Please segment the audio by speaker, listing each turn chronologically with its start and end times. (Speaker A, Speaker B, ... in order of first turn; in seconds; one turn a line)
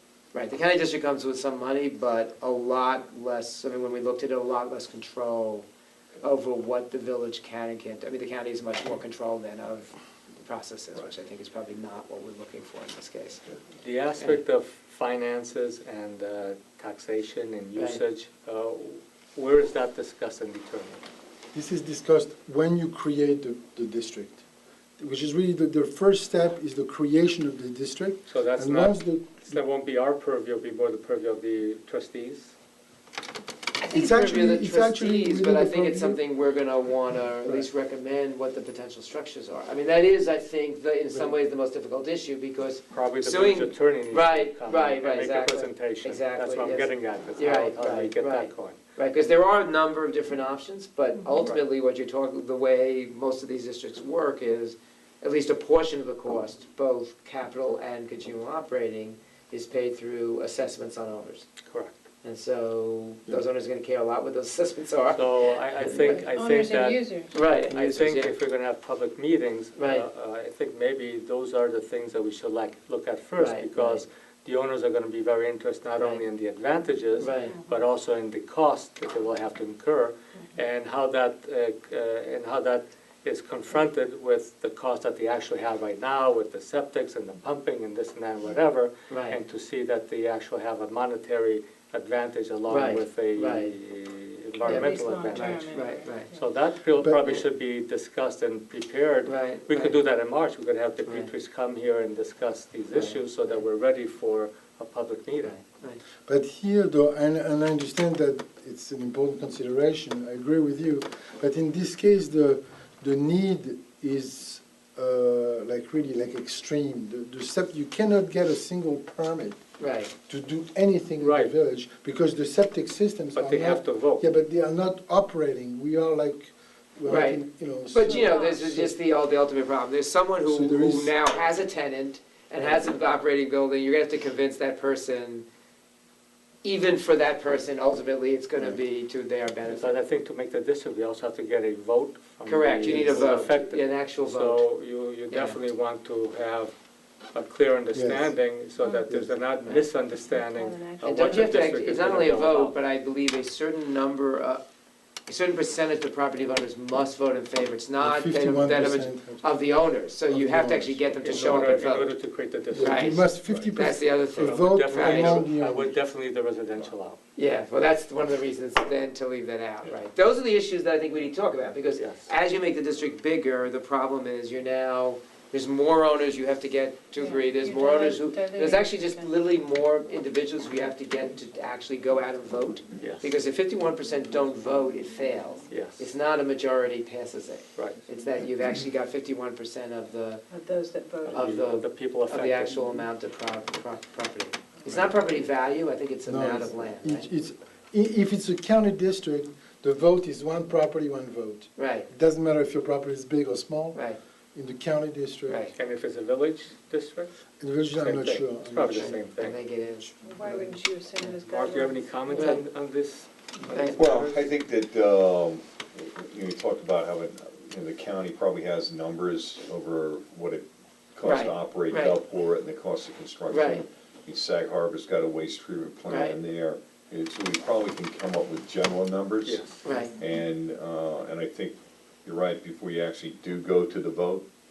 Speaker A: 0.3-5.7
Speaker A: 6.2-13.4
Speaker B: 13.8-21.0
Speaker A: 17.8-18.0
Speaker C: 21.5-24.4
Speaker C: 25.0-29.6
Speaker B: 28.3-32.5
Speaker A: 33.8-61.5
Speaker C: 33.9-36.2
Speaker B: 42.9-49.3
Speaker B: 61.6-62.0
Speaker A: 62.2-66.2
Speaker B: 65.1-95.7
Speaker D: 65.8-67.4
Speaker A: 67.3-68.3
Speaker A: 69.8-70.0
Speaker A: 73.4-74.0
Speaker A: 76.0-76.2
Speaker A: 77.2-77.5
Speaker A: 89.1-89.4
Speaker A: 92.7-93.7
Speaker D: 94.6-96.4
Speaker A: 94.6-96.3
Speaker B: 96.3-105.6
Speaker C: 97.0-97.4
Speaker A: 99.2-100.0
Speaker A: 102.9-103.6
Speaker A: 105.4-106.0
Speaker C: 106.2-119.6
Speaker A: 119.8-120.1
Speaker C: 120.2-128.9
Speaker B: 121.2-121.5
Speaker B: 123.3-124.2
Speaker A: 127.1-135.4
Speaker D: 128.1-128.6
Speaker C: 130.4-131.1
Speaker A: 136.6-140.0
Speaker B: 139.7-146.7
Speaker A: 142.4-144.7
Speaker C: 142.8-143.3
Speaker A: 145.3-145.6
Speaker B: 147.3-152.8
Speaker C: 147.9-148.5
Speaker A: 149.6-149.8
Speaker D: 150.2-151.7
Speaker A: 151.0-154.6
Speaker A: 155.3-162.1
Speaker C: 158.0-159.5
Speaker C: 160.3-161.7
Speaker B: 161.2-167.2
Speaker C: 162.7-165.9
Speaker A: 162.7-165.5
Speaker A: 167.4-190.4
Speaker B: 172.0-172.3
Speaker D: 177.2-179.4
Speaker B: 183.0-183.3
Speaker B: 185.7-186.1
Speaker B: 187.8-188.0
Speaker D: 190.5-191.6
Speaker B: 191.2-193.0
Speaker A: 191.3-197.3
Speaker C: 196.3-205.6
Speaker A: 201.8-202.1
Speaker A: 205.5-205.7
Speaker B: 205.7-207.3
Speaker C: 207.6-209.2
Speaker B: 207.9-209.6
Speaker A: 208.8-210.1
Speaker C: 210.1-210.8
Speaker D: 210.2-212.6
Speaker B: 211.4-214.4
Speaker A: 212.3-212.6
Speaker A: 213.7-214.1
Speaker E: 214.0-234.4
Speaker A: 221.2-222.2
Speaker A: 223.5-223.8
Speaker A: 226.1-226.4
Speaker B: 229.4-230.0
Speaker A: 229.8-230.1